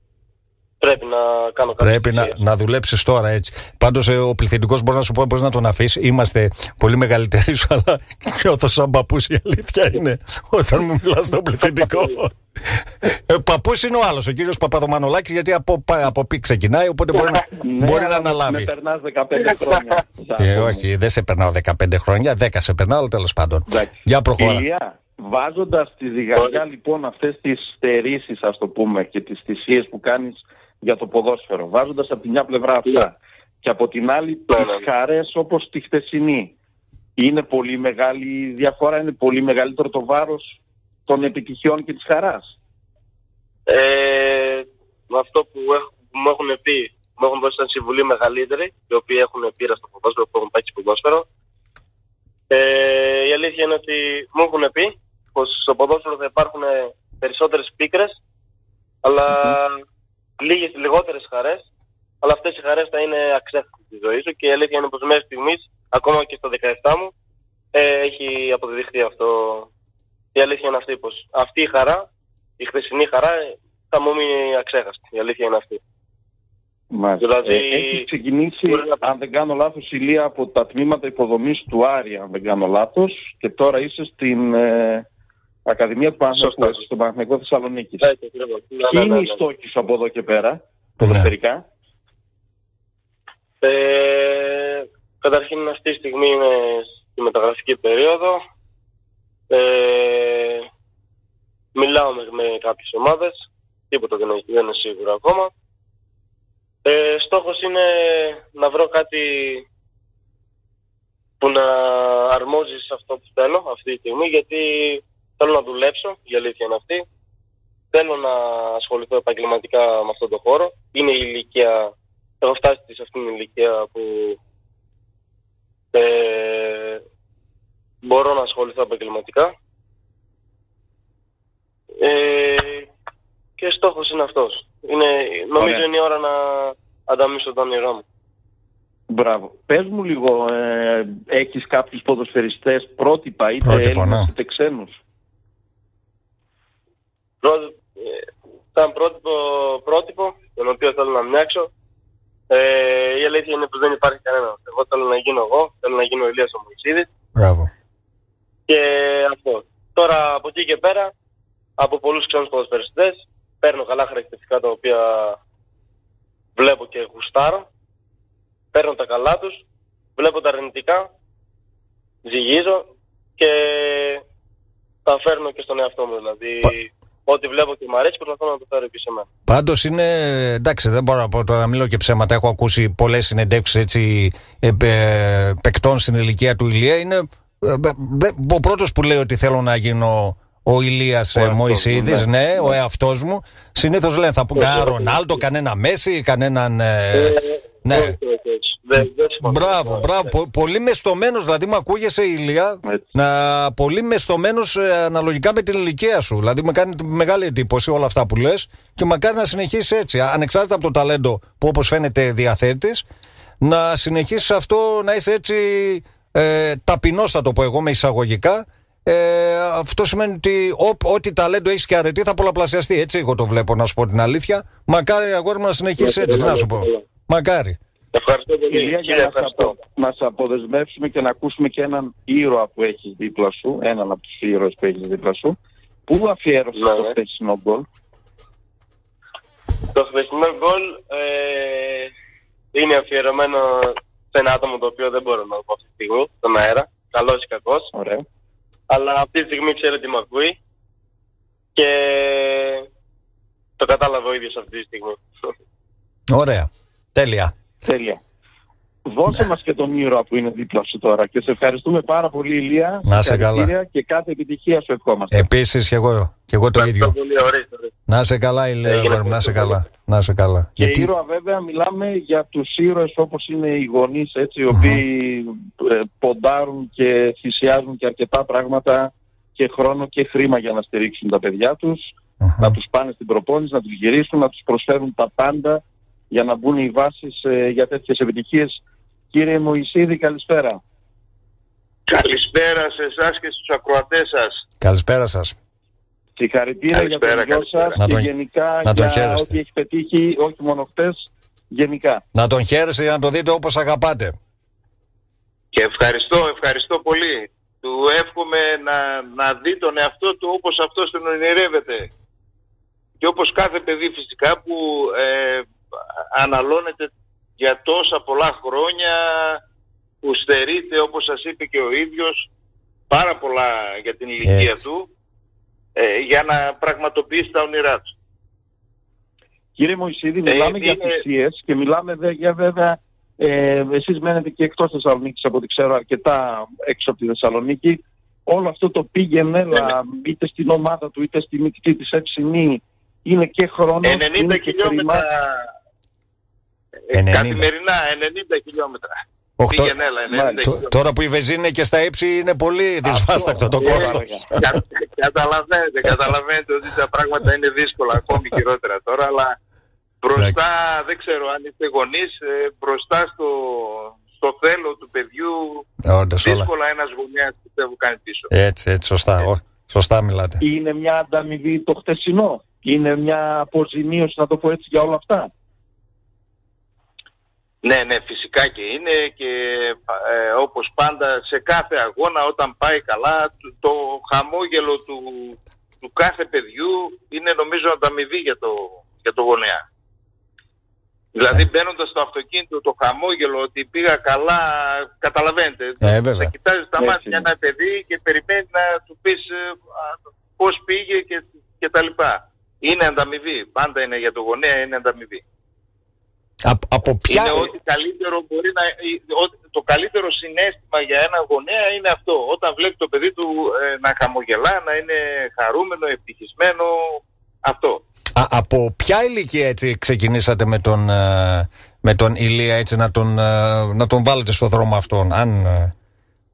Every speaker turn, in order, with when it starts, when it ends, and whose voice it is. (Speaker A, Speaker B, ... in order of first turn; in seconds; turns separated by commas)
Speaker A: 0.8-2.3, Speaker B: 1.8-18.7, Speaker C: 17.6-20.8, Speaker B: 20.4-24.6, Speaker C: 23.7-36.5, Speaker A: 34.5-34.8, Speaker C: 37.2-42.5, Speaker A: 43.7-51.2, Speaker A: 52.5-58.2, Speaker A: 59.0-59.8, Speaker A: 60.4-61.6, Speaker A: 62.2-67.1, Speaker A: 67.7-69.7, Speaker A: 70.3-72.0, Speaker A: 72.6-75.8, Speaker C: 76.9-85.0, Speaker A: 77.2-78.1, Speaker A: 78.6-79.0, Speaker C: 85.7-88.1, Speaker A: 86.3-86.8, Speaker A: 88.0-89.4, Speaker C: 88.8-91.6, Speaker B: 91.0-91.3, Speaker A: 93.6-98.4, Speaker A: 99.5-100.7, Speaker A: 101.7-105.5, Speaker A: 106.8-109.6, Speaker A: 111.4-117.0, Speaker A: 117.9-124.4, Speaker A: 125.9-127.0, Speaker A: 128.0-129.5, Speaker A: 132.0-132.9, Speaker A: 133.6-138.0, Speaker C: 135.6-135.8, Speaker C: 139.1-145.0, Speaker B: 143.6-144.3, Speaker A: 147.4-151.7, Speaker A: 152.5-157.1, Speaker B: 157.3-157.7, Speaker A: 158.7-161.1, Speaker A: 161.8-165.4, Speaker A: 166.6-167.7, Speaker A: 168.7-169.6, Speaker A: 170.2-171.1, Speaker A: 172.2-174.2, Speaker A: 175.0-179.3, Speaker B: 179.5-198.2, Speaker C: 191.3-192.8, Speaker A: 194.5-195.4, Speaker A: 197.1-200.3, Speaker B: 199.0-213.1, Speaker B: 213.6-227.8, Speaker A: 226.0-227.0, Speaker A: 228.1-229.8, Speaker C: 228.7-235.6, Speaker C: 236.1-237.8, Speaker A: 236.7-237.1, Speaker A: 239.9-242.1, Speaker A: 242.7-247.9, Speaker C: 247.9-248.2, Speaker A: 248.9-250.6, Speaker A: 251.8-252.9, Speaker A: 253.8-255.5, Speaker B: 256.3-257.5, Speaker C: 257.8-258.2, Speaker C: 259.1-265.4, Speaker B: 263.1-263.7, Speaker B: 265.3-267.1, Speaker A: 266.8-267.9, Speaker B: 268.1-271.1, Speaker A: 268.8-269.8, Speaker C: 270.8-290.8, Speaker B: 274.7-275.0, Speaker B: 282.4-282.8, Speaker D: 292.1-294.6, Speaker B: 294.8-295.5, Speaker C: 296.4-302.2, Speaker D: 296.9-298.0, Speaker B: 298.0-298.3, Speaker B: 298.8-299.6, Speaker B: 302.3-304.3, Speaker D: 305.7-312.1, Speaker D: 313.2-315.7, Speaker D: 316.3-319.6, Speaker D: 320.2-322.5, Speaker D: 323.1-325.1, Speaker B: 324.4-324.8, Speaker D: 325.9-328.1, Speaker C: 329.8-345.2, Speaker D: 330.4-331.2, Speaker D: 344.0-345.7, Speaker D: 347.1-349.2, Speaker B: 347.1-347.7, Speaker B: 349.6-349.9, Speaker D: 349.7-350.9, Speaker C: 350.3-350.6, Speaker B: 350.6-354.6, Speaker C: 353.0-354.5, Speaker D: 353.8-359.5, Speaker D: 360.2-365.9, Speaker B: 366.0-366.7, Speaker D: 366.4-368.5, Speaker B: 368.5-370.6, Speaker C: 370.6-375.5, Speaker D: 377.8-389.8, Speaker D: 391.3-405.4, Speaker B: 396.0-396.5, Speaker C: 397.0-397.5, Speaker B: 406.6-407.7, Speaker D: 407.3-418.0, Speaker B: 418.4-425.9